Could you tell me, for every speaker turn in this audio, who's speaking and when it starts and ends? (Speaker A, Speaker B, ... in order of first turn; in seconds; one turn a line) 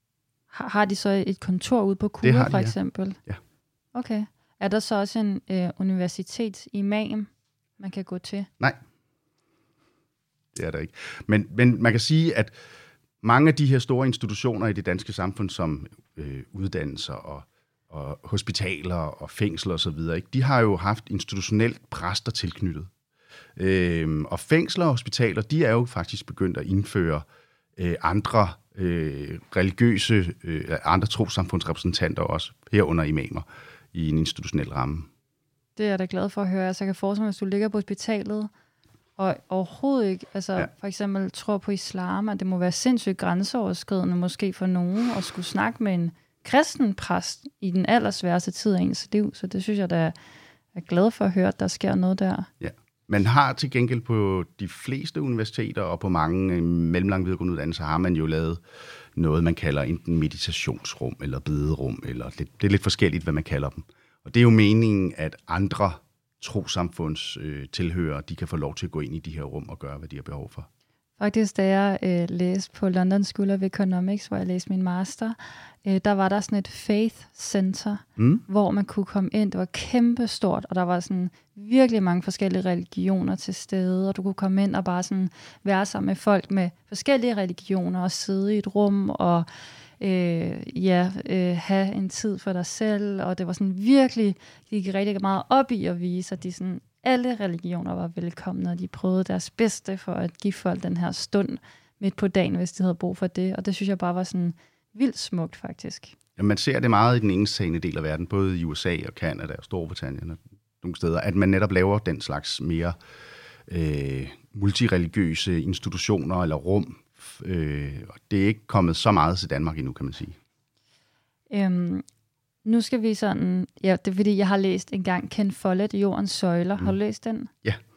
Speaker A: 0.5-3.2
Speaker B: 2.2-2.8
Speaker A: 3.9-8.5
Speaker B: 10.5-12.6
Speaker B: 13.2-22.9
Speaker B: 23.6-27.2
Speaker B: 27.8-35.1
Speaker A: 35.8-38.5
Speaker A: 39.2-50.1
Speaker A: 50.8-52.5
Speaker B: 52.6-58.6
Speaker B: 59.1-70.7
Speaker A: 71.2-89.5
Speaker B: 78.2-78.4
Speaker A: 90.0-106.2
Speaker B: 106.4-113.0
Speaker B: 113.7-120.4
Speaker A: 121.5-122.0
Speaker A: 122.7-127.5